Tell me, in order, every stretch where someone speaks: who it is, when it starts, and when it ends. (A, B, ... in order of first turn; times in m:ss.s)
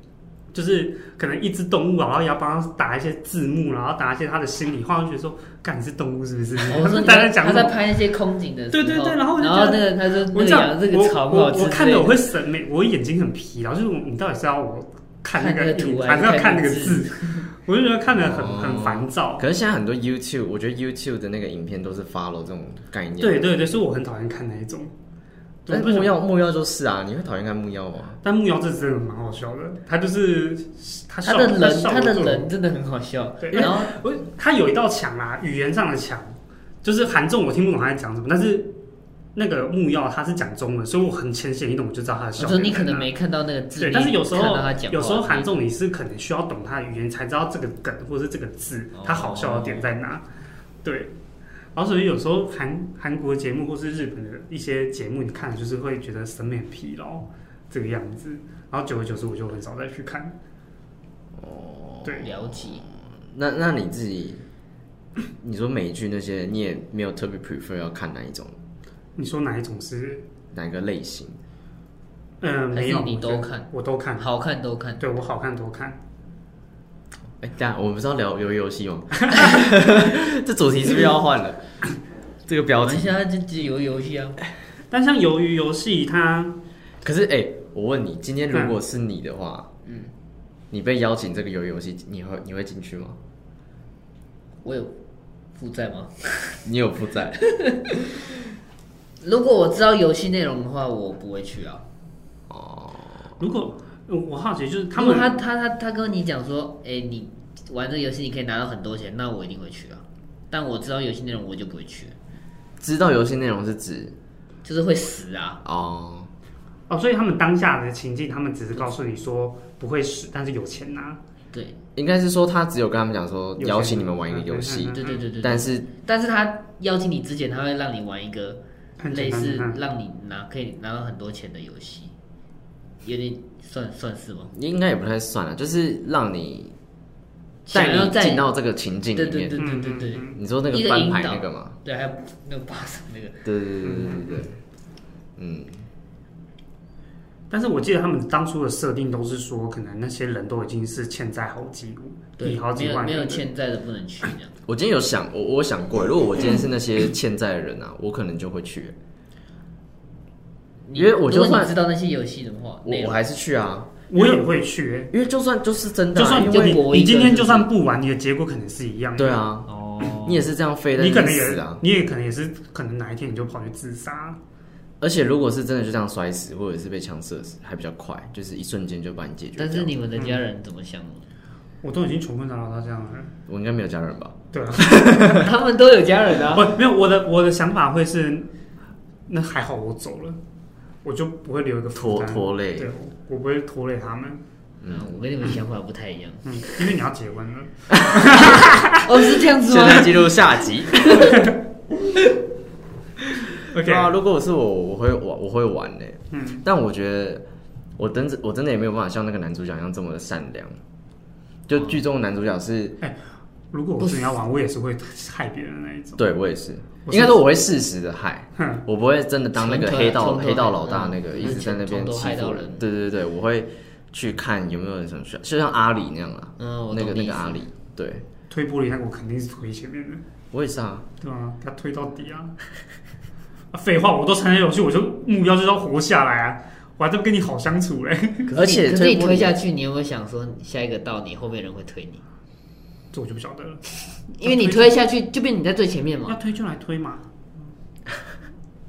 0:00.5-0:07.8 A
0:06.6-0:12.2 B
0:08.7-0:19.4 A
0:15.3-0:17.5 B
0:18.1-0:23.5 C
0:23.2-0:24.9 A
0:25.7-0:26.2 A
0:25.7-0:28.2 C
0:28.2-0:32.5 A
0:31.2-0:33.9 B
0:33.4-0:38.7 A
0:39.4-0:43.1 A
0:42.4-0:45.5 B
0:43.8-0:50.2 A
0:49.0-0:49.9 B
0:50.8-0:51.1 A
0:51.8-1:00.4 A
1:01.4-1:04.4 C
1:02.2-1:02.8 B
1:05.4-1:08.6 C
1:09.2-1:10.3 A
1:10.5-1:11.4 C
1:12.4-1:14.3 A
1:12.7-1:15.0 B
1:15.0-1:16.0 A
1:17.4-1:21.6 C
1:22.5-1:23.2 C
1:22.8-1:24.4 B
1:24.9-1:26.6 A
1:27.0-1:29.7 C
1:30.7-1:33.2 C
1:34.6-1:35.0 B
1:35.6-1:36.6 B
1:36.6-1:37.4 C
1:37.4-1:38.0 B
1:39.2-1:41.8 B
1:42.5-1:43.3 C
1:43.4-1:45.4 A
1:45.0-1:52.2 B
1:52.8-1:54.2 C
1:54.6-1:55.6 B
1:55.6-1:56.3 C
1:56.9-2:01.2 A
2:01.5-2:01.8 B
2:02.0-2:05.9 C
2:03.6-2:05.2 A
2:04.9-2:12.1 B
2:09.0-2:09.8 A
2:13.0-2:14.5 B
2:14.5-2:16.8 C
2:17.7-2:18.5 B
2:17.7-2:19.6 C
2:19.2-2:23.4 B
2:19.6-2:20.4 A
2:20.3-2:21.8 C
2:23.4-2:24.5 C
2:23.8-2:24.4 A
2:25.4-2:25.8 C
2:27.5-2:33.5 A
2:32.4-2:34.5 B
2:34.7-2:39.0 C
2:40.8-2:43.2 B
2:41.0-2:41.8 C
2:42.8-2:43.9 C
2:44.1-2:45.1 A
2:45.1-2:46.8 C
2:46.1-2:49.4 A
2:46.4-2:47.7 B
2:49.2-2:51.8 C
2:49.7-2:50.5 B
2:51.0-2:54.4 A
2:55.0-3:00.0 C
2:59.6-3:01.3 B
3:00.2-3:00.4 A
3:01.8-3:03.3 A
3:03.5-3:05.5 C
3:04.5-3:05.4 A
3:05.3-3:06.7 B
3:06.5-3:08.5 A
3:09.3-3:10.4 A
3:11.0-3:14.4 A
3:12.0-3:12.9 C
3:14.8-3:15.2 C
3:14.9-3:16.6 B
3:16.5-3:19.0 A
3:17.9-3:18.5 C
3:18.4-3:20.4 B
3:19.6-3:21.4 C
3:21.0-3:21.2 B
3:23.7-3:27.5 C
3:23.7-3:24.1 A
3:26.3-3:26.6 A
3:28.0-3:30.8 C
3:31.7-3:33.0 C
3:33.7-3:36.2 A
3:34.0-3:34.4 B
3:36.2-3:48.2 C
3:37.1-3:37.4 A
3:38.6-3:38.8 A
3:39.6-3:42.8 B
3:46.6-3:47.6 B
3:48.5-3:50.2 A
3:50.5-3:51.1 C
3:51.2-3:52.6 A
3:53.7-3:58.5 A
3:58.5-3:59.6 C
3:58.6-4:02.2 B
4:03.1-4:03.8 A
4:04.4-4:06.4 B
4:04.4-4:05.0 A
4:06.3-4:07.3 A